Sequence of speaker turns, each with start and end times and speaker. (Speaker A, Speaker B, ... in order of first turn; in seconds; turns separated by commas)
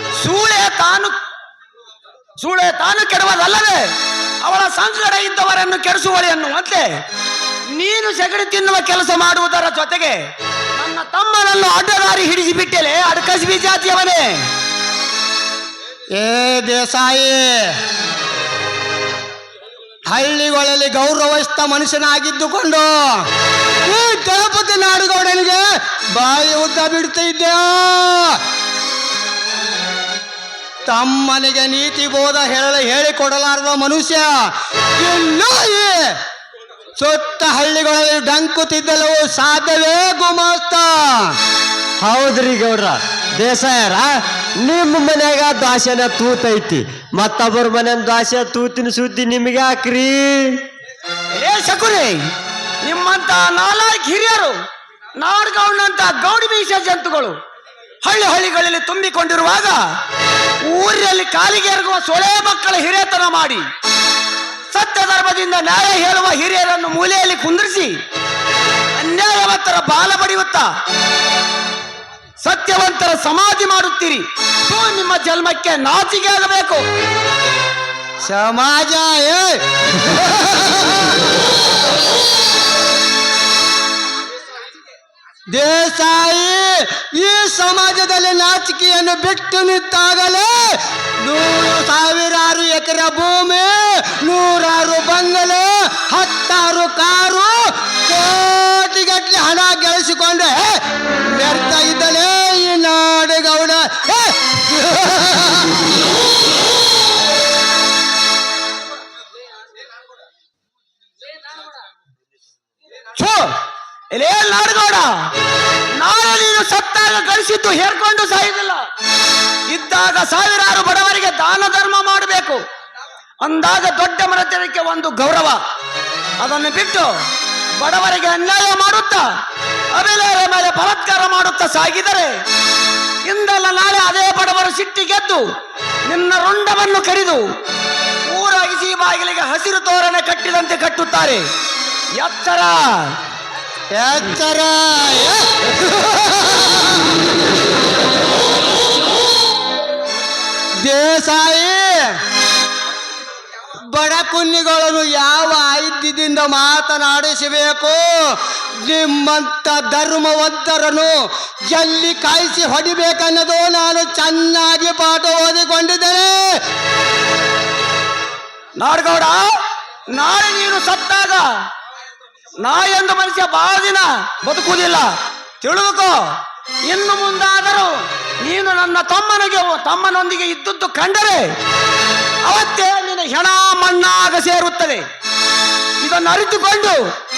Speaker A: 0.2-1.1, Speaker A: 2.4-7.0, Speaker A: 7.7-14.5, Speaker B: 16.1-17.8, Speaker B: 20.1-23.3, Speaker B: 23.8-28.4, Speaker B: 30.9-36.2, Speaker B: 37.0-41.4, Speaker C: 42.0-50.6, Speaker A: 51.3-52.2, Speaker A: 52.8-54.5, Speaker A: 55.1-57.4, Speaker A: 58.0-59.8, Speaker A: 60.6-63.6, Speaker A: 64.7-68.0, Speaker A: 68.9-70.7, Speaker A: 72.4-76.8, Speaker B: 78.2-81.3, Speaker B: 85.5-105.9, Speaker A: 113.1-113.5, Speaker A: 114.1-115.1, Speaker A: 116.0-118.8, Speaker A: 119.7-122.6, Speaker A: 123.4-125.6, Speaker A: 126.4-127.1, Speaker A: 127.8-129.2, Speaker A: 129.9-132.3, Speaker A: 133.2-135.4, Speaker A: 136.1-137.4, Speaker A: 138.3-141.4, Speaker A: 142.2-143.1, Speaker B: 143.9-147.1, Speaker B: 150.8-152.2, Speaker B: 153.9-166.6, Speaker A: 168.8-169.5, Speaker A: 170.1-171.5, Speaker A: 172.6-175.1, Speaker A: 175.6-176.2, Speaker A: 176.8-181.5, Speaker A: 182.4-185.0, Speaker A: 186.0-187.0